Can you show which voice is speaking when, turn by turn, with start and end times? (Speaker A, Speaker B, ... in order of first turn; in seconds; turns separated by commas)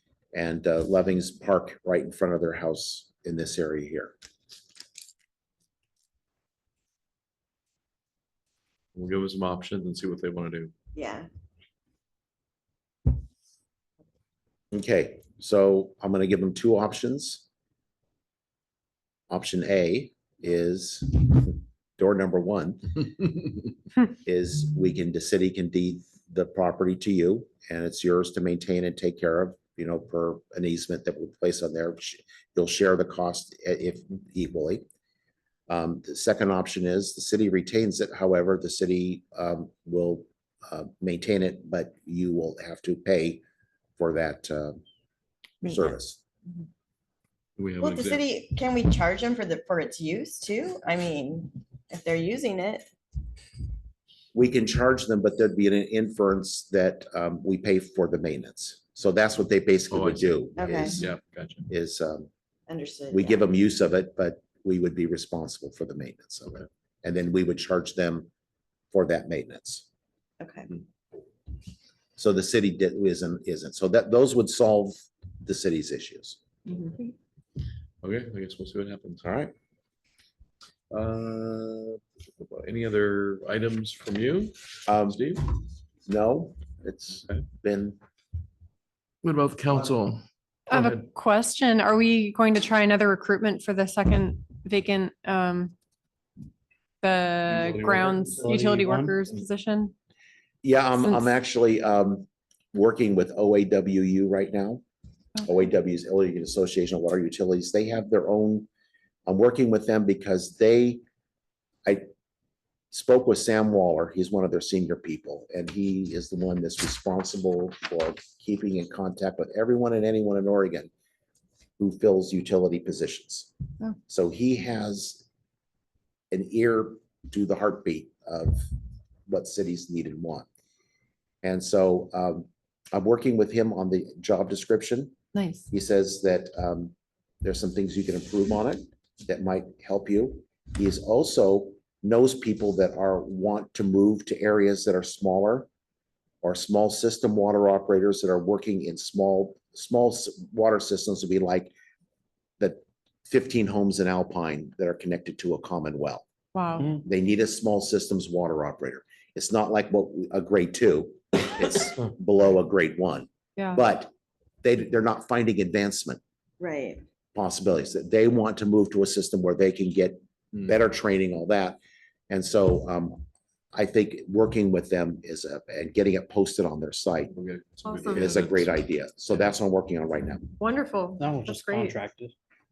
Speaker A: 0.3-4.1, Speaker B: 8.9-10.7, Speaker C: 11.0-11.3, Speaker A: 14.7-17.4, Speaker A: 19.3-23.1, Speaker A: 24.2-34.8, Speaker A: 35.7-43.4, Speaker A: 44.0-44.8, Speaker A: 45.6-46.2, Speaker B: 47.6-48.3, Speaker C: 47.8-52.9, Speaker A: 54.3-61.1, Speaker B: 59.9-61.7, Speaker C: 60.6-60.9, Speaker A: 61.7-62.3, Speaker C: 62.7-63.5, Speaker A: 63.1-68.3, Speaker A: 68.9-69.9, Speaker C: 70.4-70.7, Speaker A: 72.2-76.4, Speaker B: 78.0-79.3, Speaker A: 79.2-79.5, Speaker B: 80.9-85.4, Speaker A: 84.9-85.3, Speaker A: 86.1-88.0, Speaker B: 89.2-91.1, Speaker D: 90.7-95.7, Speaker D: 97.0-99.9, Speaker E: 97.5-99.2, Speaker A: 100.6-104.8, Speaker D: 101.0-101.3, Speaker A: 105.4-108.7, Speaker A: 109.3-111.0, Speaker A: 112.9-120.9, Speaker A: 121.8-123.5, Speaker A: 124.1-125.2, Speaker A: 126.3-128.7, Speaker A: 129.3-130.5, Speaker A: 131.4-135.2, Speaker D: 135.3-135.7, Speaker A: 135.7-145.7, Speaker A: 146.4-151.7, Speaker A: 152.6-156.2, Speaker D: 156.5-157.0, Speaker A: 156.8-164.1, Speaker D: 163.6-163.8, Speaker A: 164.6-166.2, Speaker C: 166.6-167.0, Speaker A: 167.3-171.8, Speaker A: 172.3-173.2, Speaker A: 173.7-177.3, Speaker B: 177.3-178.8, Speaker D: 177.8-178.4, Speaker A: 178.2-180.4, Speaker D: 180.6-182.0, Speaker E: 181.2-182.3